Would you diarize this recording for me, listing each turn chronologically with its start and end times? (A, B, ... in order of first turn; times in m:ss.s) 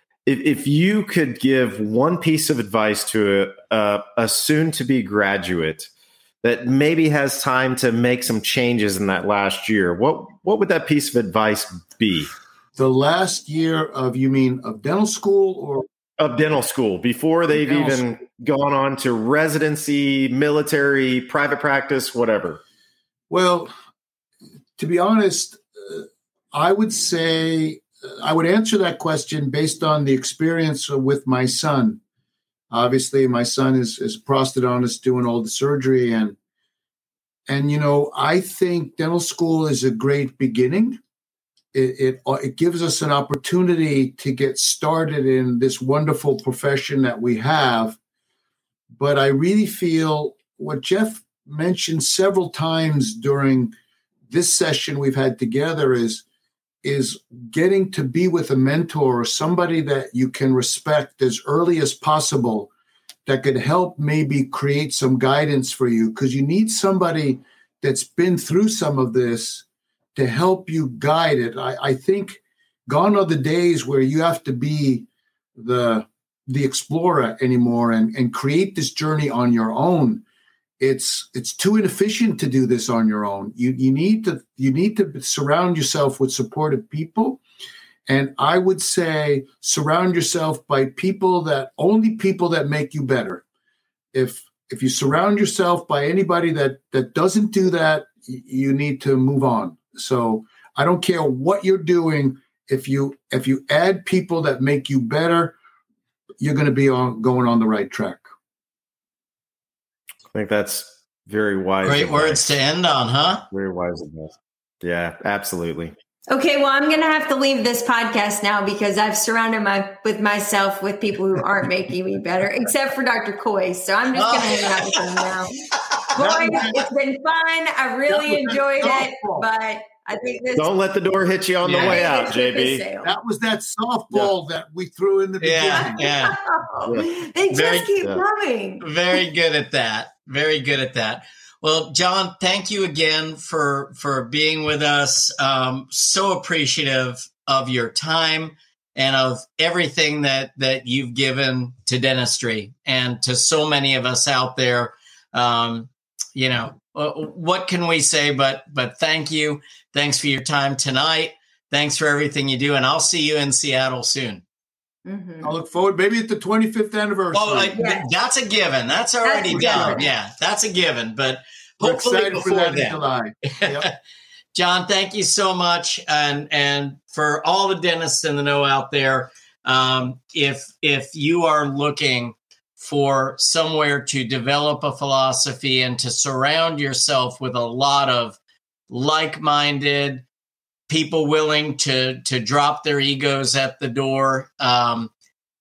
0:00.2-0:05.9 A
0:06.4-0:12.3 A
0:12.8-0:15.9 B
0:16.2-0:22.6 A
0:17.5-0:18.1 B
0:23.3-0:23.7 B
0:24.8-0:32.0 B
0:32.7-0:36.4 B
0:37.5-0:41.0 B
0:41.7-0:48.0 B
0:49.0-0:53.7 B
0:54.3-0:56.2 B
0:56.8-1:02.7 B
1:03.3-1:20.2 B
1:20.8-1:27.4 B
1:28.1-1:33.4 B
1:34.1-1:45.6 B
1:46.4-1:48.3 B
1:50.3-1:52.4 A
1:51.8-1:53.4 C
1:53.5-1:55.9 A
1:56.3-2:05.6 D
2:04.1-2:06.0 C
2:06.1-2:10.8 D
2:06.2-2:06.9 B
2:08.1-2:09.5 B
2:10.6-2:12.8 A
2:11.6-2:12.0 C
2:11.7-2:13.2 D
2:13.0-2:16.0 B
2:15.4-2:16.4 C
2:15.7-2:18.9 D
2:16.8-2:17.1 A
2:17.5-2:17.9 C
2:18.8-2:44.4 C
2:45.0-2:45.6 D
2:45.4-2:47.8 B
2:47.3-2:53.9 C
2:47.8-2:48.1 D
2:49.2-2:50.1 D
2:49.5-2:50.1 B
2:51.8-2:53.9 B
2:54.6-3:08.4 C
3:08.9-3:10.2 C
3:10.9-3:15.1 C